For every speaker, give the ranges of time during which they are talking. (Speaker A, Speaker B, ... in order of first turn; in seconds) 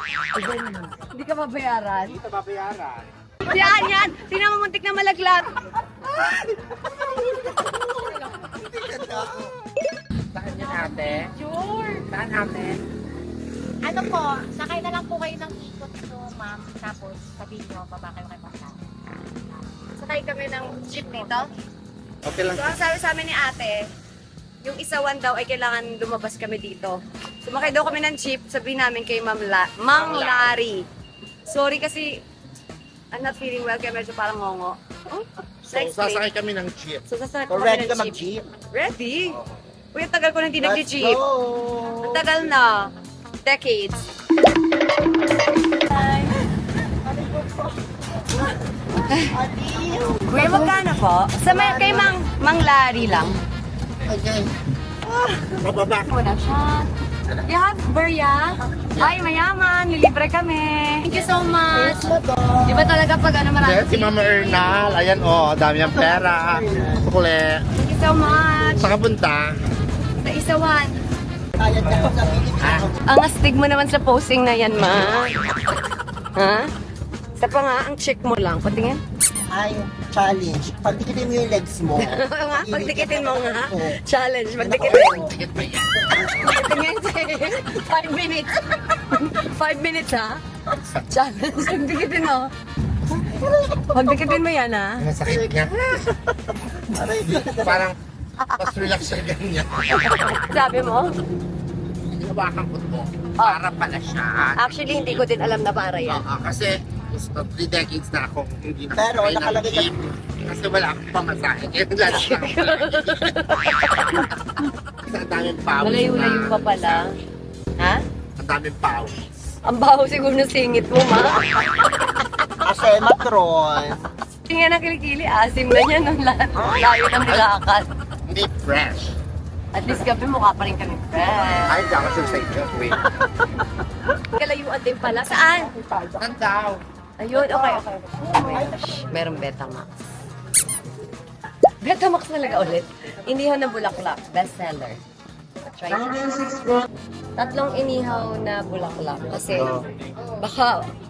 Speaker A: 0.3-2.2, 3.5-5.5, 11.2-12.0, 20.0-21.5, 22.5-23.9, 24.6-30.8, 31.5-32.2, 33.1-36.2, 37.1-39.4, 39.9-41.2, 42.0-42.9, 43.4-44.0, 45.9-46.4, 49.1-49.3, 50.3-53.4, 56.0-56.9, 57.5-65.0, 67.8-68.9, 70.2-70.9, 73.1-75.3, 76.3-76.7, 77.4-79.0, 82.0-85.3, 86.3-90.4, 91.1-92.5, 93.9-95.1, 98.5-98.9, 100.1-101.2, 104.6-106.2, 112.1-114.3, 115.8-117.1, 119.6-121.5, 124.5-127.9, 129.7-131.8, 134.3-135.7, 137.2-140.0, 141.8-145.0, 145.7-146.2, 147.4-149.7, 150.4-150.8
Speaker B: 2.0-3.1, 8.8-9.5, 10.3-11.3, 12.0-12.8, 22.2-22.8, 29.9-30.6, 35.6-37.0, 51.4-52.1, 54.0-54.6, 55.6-56.1, 58.9-59.2, 63.6-67.7, 68.5-69.5, 72.6-72.9, 84.8-86.6, 95.0-96.0, 97.2-98.0, 98.6-100.2, 102.0-105.3, 106.0-113.6, 115.0-117.0, 118.4-119.2, 128.3-129.2, 131.7-133.0, 136.1-136.8
Speaker C: 6.1-9.5, 37.5-38.5, 40.6-42.5, 47.0-50.8, 61.1-63.0, 65.8-67.1, 71.6-73.0, 79.5-84.0, 84.6-85.3, 93.1-94.3, 95.2-96.1, 96.9-97.8, 108.9-110.1, 122.6-124.0, 126.5-126.9, 138.5-139.0, 145.9-146.8, 149.5-149.8
Speaker D: 14.0-18.6